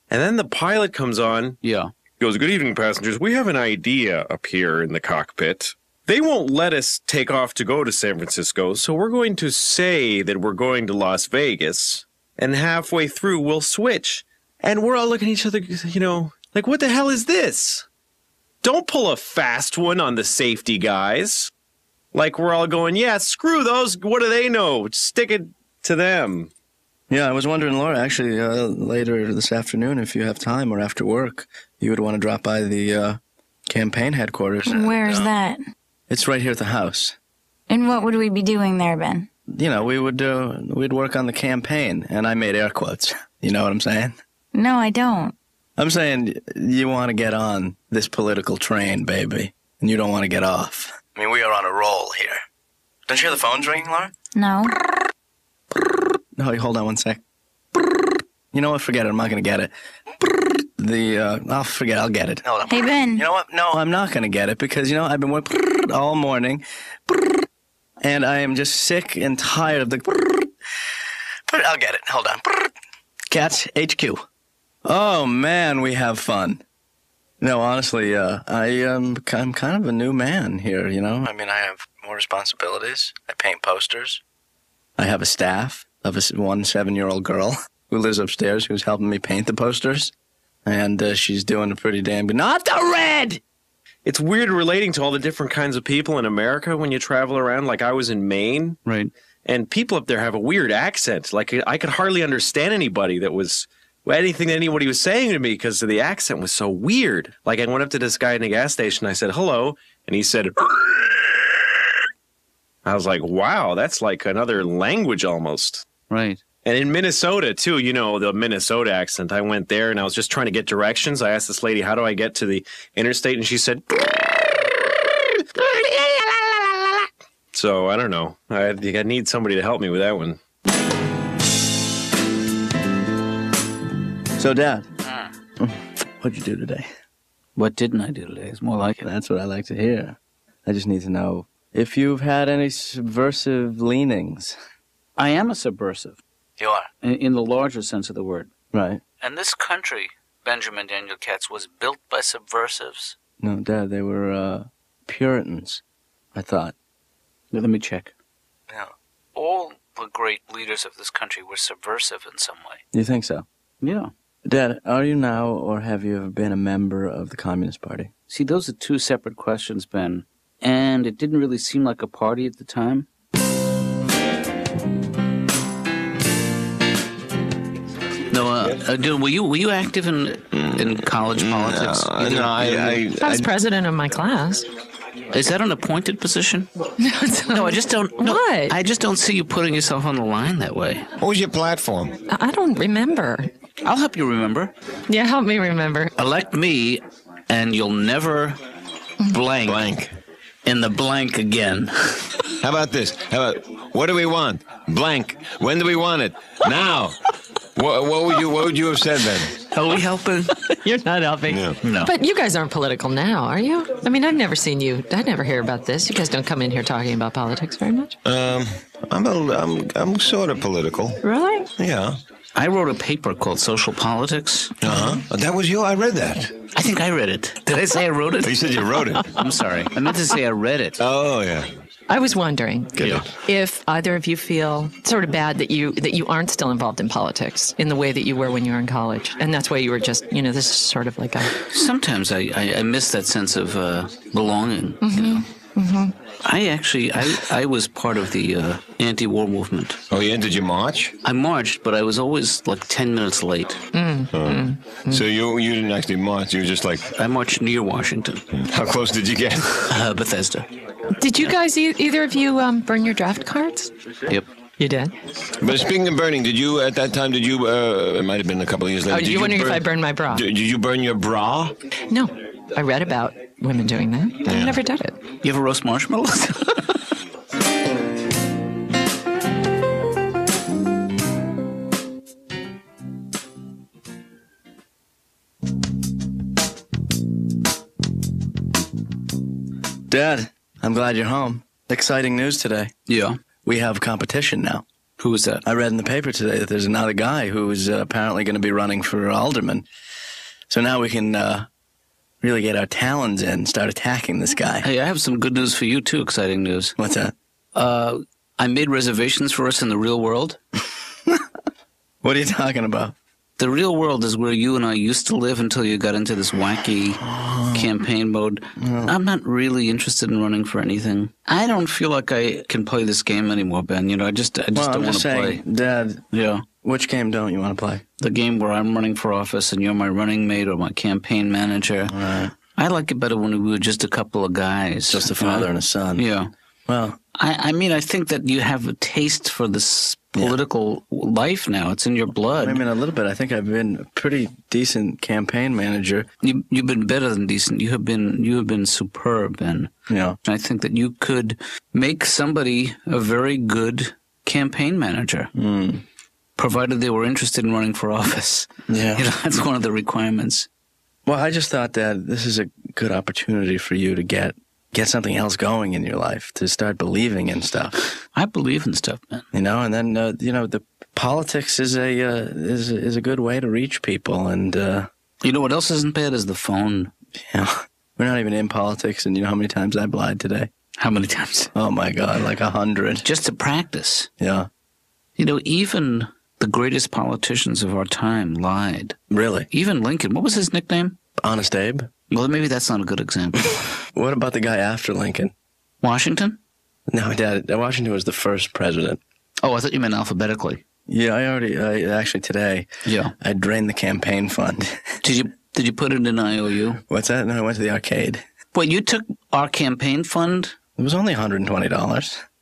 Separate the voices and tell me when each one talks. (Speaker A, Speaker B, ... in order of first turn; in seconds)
Speaker A: 0.1-1.6, 2.2-17.9, 18.6-21.5, 22.1-26.5, 94.0-98.8, 99.5-111.4, 112.8-115.9, 116.7-124.5, 125.6-126.6, 127.5-130.4
Speaker B: 1.6-1.9, 98.8-99.1, 116.1-116.4, 137.6-139.0, 145.2-146.2, 147.0-148.5, 149.2-153.2, 157.5-158.1, 159.3-162.8, 163.8-164.1, 168.3-173.1, 178.3-183.0, 185.3-186.7, 187.5-191.1, 193.8-194.7, 196.2-198.6, 199.3-199.9, 200.7-202.5, 209.7-210.8, 211.8-212.1, 222.6-224.7, 226.7-228.5, 229.3-231.0, 233.0-233.3, 241.7-245.5, 246.4-250.0, 251.2-253.8, 257.2-258.4, 259.9-260.7, 275.4-277.1, 293.1-293.4, 295.2-295.6, 304.8-306.9, 307.8-310.6, 313.6-325.6, 326.3-326.6, 328.2-332.1, 332.8-336.5, 337.4-342.8, 346.4-349.9, 350.4-355.5, 356.6-360.7, 368.3-369.4, 375.4-377.1, 381.0-381.7, 383.2-384.3, 385.4-389.2, 389.7-391.2, 392.3-393.8, 396.0-396.6, 399.6-400.8, 403.1-403.3, 405.2-407.0, 408.7-410.8
Speaker C: 27.1-33.2, 33.7-35.3, 36.1-37.2, 39.5-44.1, 45.8-52.4, 53.1-54.1, 56.4-57.2, 58.5-67.2, 68.0-70.5, 71.5-72.7, 73.3-74.2, 74.8-76.6, 77.4-84.2, 85.0-90.1, 90.7-93.4, 134.4-134.9, 135.6-136.9, 139.0-144.6, 146.6-146.9, 148.7-149.0, 153.4-155.8, 156.3-156.8, 162.9-163.5, 164.4-168.1, 290.1-292.9, 293.6-294.9, 295.6-299.9, 300.7-301.7, 302.4-304.9, 307.0-307.4, 312.2-313.1, 317.2-317.9, 318.8-319.1, 324.7-326.2, 326.8-328.0, 332.1-332.5, 335.1-336.3, 336.9-337.2, 342.6-346.3, 350.1-350.4, 355.6-356.0, 358.9-359.3, 361.3-368.0, 369.5-375.1, 377.5-380.7, 381.7-383.2, 384.4-384.7, 389.3-389.7, 391.4-392.1, 394.1-395.5, 397.1-399.2, 401.1-405.0, 407.1-408.4, 411.0-412.4
Speaker D: 34.7-35.6, 37.7-39.3, 44.5-45.4, 54.3-54.8, 62.7-63.3
Speaker E: 180.5-183.5, 191.2-192.2, 199.6-200.1, 202.6-207.2, 207.8-209.6, 211.5-211.8, 218.2-221.2, 221.8-222.2, 224.8-226.5, 228.4-229.3, 231.0-231.7, 232.9-233.3, 250.1-251.1, 254.3-257.1, 258.5-259.9, 265.6-271.8, 274.4-274.8
Speaker F: 183.2-184.7, 187.0-188.8, 192.3-193.5, 195.1-196.1, 210.8-218.2, 221.2-221.7, 232.1-241.6, 245.0-246.1, 253.9-255.2, 261.2-263.9, 264.8-265.1, 269.1-270.4, 272.1-275.2